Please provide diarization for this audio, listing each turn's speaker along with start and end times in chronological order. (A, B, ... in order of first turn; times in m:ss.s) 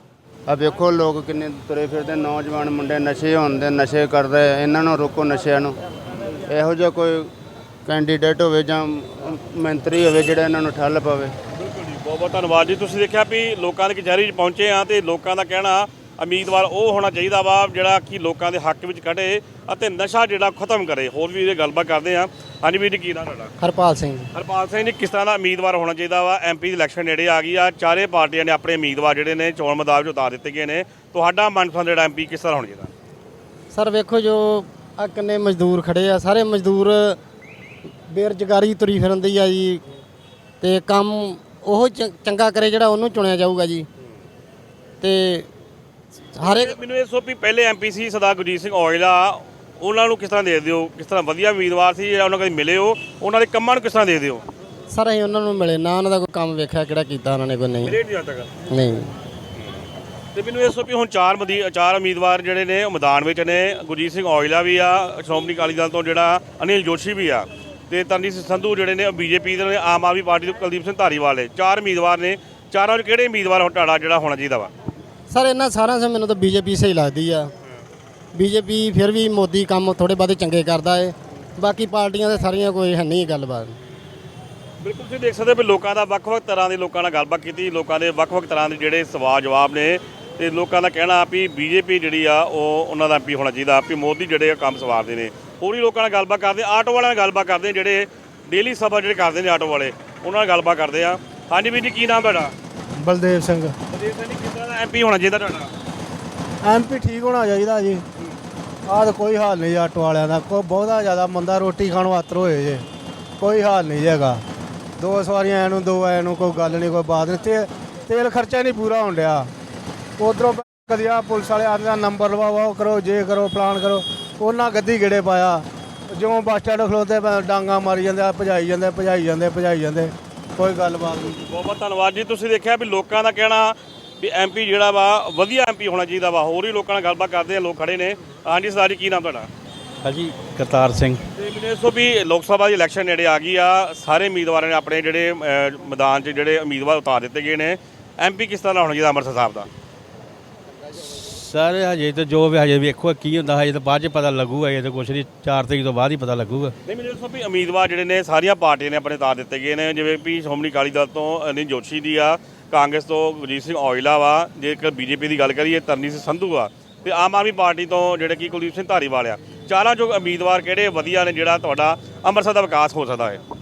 0:00.5-0:05.8 A
0:06.4-0:07.3 A
0:07.8-0:11.3 A
0:11.5-0:23.5 B
0:23.6-0:24.3 C
0:24.3-0:32.9 B
0:33.7-0:37.2 C
0:38.1-0:39.8 C
0:40.6-0:43.9 C
0:45.0-0:45.5 C
0:46.4-0:46.8 C
0:46.4-0:54.4 B
0:54.9-0:58.0 C
0:57.8-0:58.5 B
0:58.7-0:59.1 C
1:00.3-1:14.7 B
1:15.3-1:17.5 C
1:18.3-1:23.8 C
1:24.8-1:42.5 B
1:43.0-1:43.7 D
1:43.9-1:45.7 B
1:46.6-1:48.0 D
1:48.9-1:52.8 D
1:53.4-1:54.4 D
1:55.0-1:59.5 D
2:00.2-2:11.4 D
2:11.3-2:19.5 B
2:20.0-2:21.2 E
2:21.3-2:29.7 B
2:31.0-2:36.7 E
2:36.8-2:53.4 B